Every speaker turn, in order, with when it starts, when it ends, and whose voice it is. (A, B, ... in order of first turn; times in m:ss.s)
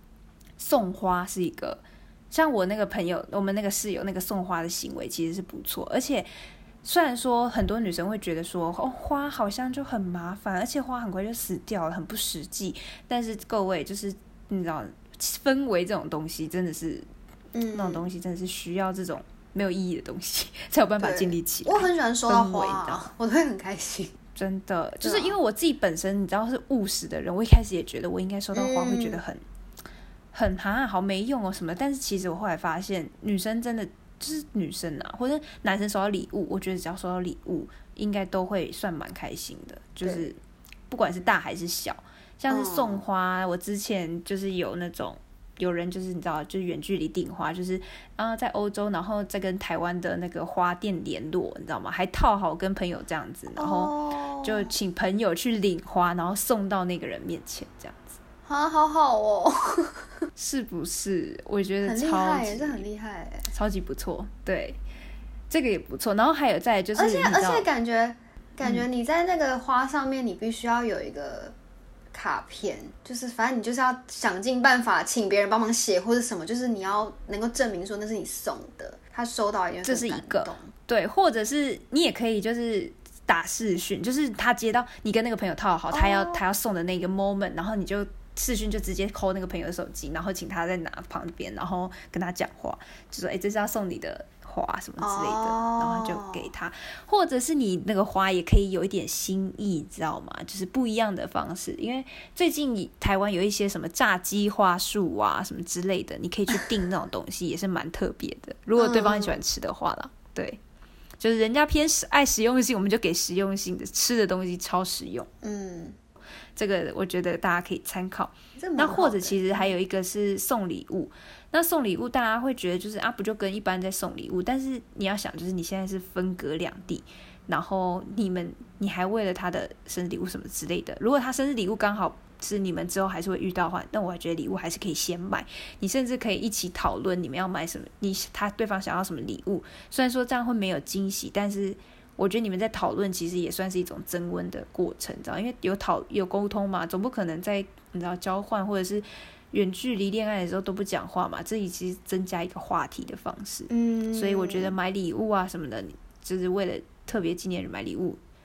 0:00.6-0:06.3 A
0:06.8-0:17.1 A
0:17.5-0:18.0 B
0:17.7-0:23.1 A
0:21.0-0:24.1 B
0:24.4-0:29.4 A
0:25.0-0:25.4 B
0:28.5-0:29.2 B
0:30.3-0:40.4 A
0:40.9-0:58.2 A
0:42.5-0:43.0 B
0:53.5-0:54.7 B
0:58.4-1:00.0 B
1:00.4-1:02.8 A
1:01.8-1:03.5 B
1:03.5-1:04.8 A
1:05.5-1:07.7 A
1:06.9-1:11.5 B
1:12.1-1:20.7 B
1:19.8-1:50.6 A
1:25.9-1:26.4 B
1:35.0-1:36.5 B
1:48.8-1:49.4 B
1:51.2-1:55.3 A
1:55.4-1:56.0 B
1:56.6-2:38.2 A
1:58.6-1:59.7 B
2:33.7-2:34.7 B